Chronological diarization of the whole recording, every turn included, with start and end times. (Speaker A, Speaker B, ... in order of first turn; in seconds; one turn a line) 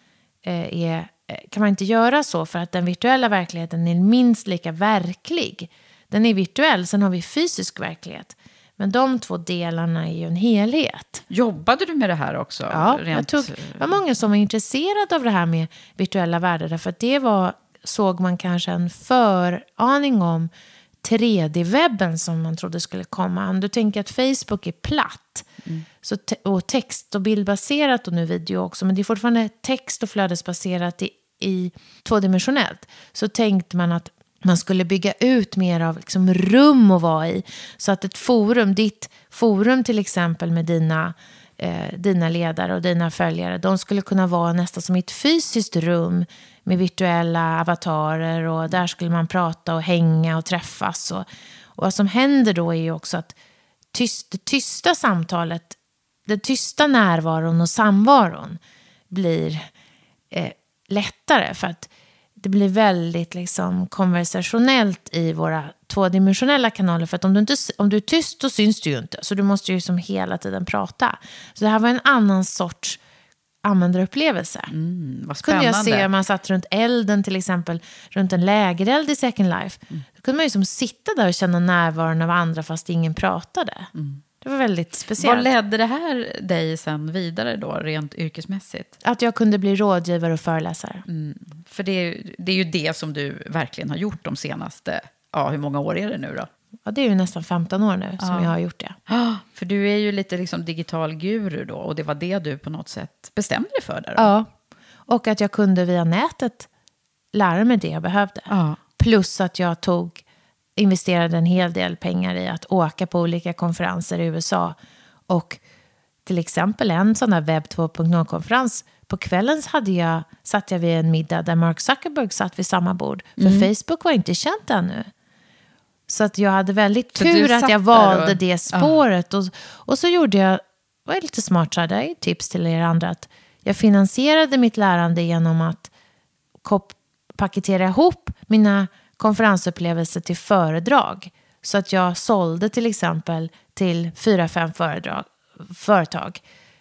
Speaker A: 0.4-11.2
Speaker B: 11.3-14.0
Speaker A: 12.7-20.5
Speaker A: 21.0-25.5
Speaker A: 26.0-53.4
Speaker A: 53.9-59.7
Speaker A: 60.3-73.0
Speaker A: 73.6-74.7
Speaker B: 74.7-76.1
Speaker A: 75.4-83.9
Speaker B: 84.0-84.2
Speaker A: 84.4-85.5
Speaker B: 85.2-88.9
Speaker A: 89.0-91.0
Speaker B: 91.1-96.5
Speaker A: 96.9-99.0
Speaker B: 98.2-98.5
Speaker B: 99.1-104.3
Speaker A: 104.2-104.5
Speaker A: 105.1-106.7
Speaker A: 107.3-110.2
Speaker B: 108.5-108.8
Speaker A: 110.8-114.8
Speaker A: 115.3-115.6
Speaker A: 116.2-125.1
Speaker B: 123.4-123.7
Speaker A: 126.1-135.9
Speaker B: 127.2-129.0
Speaker A: 136.6-146.4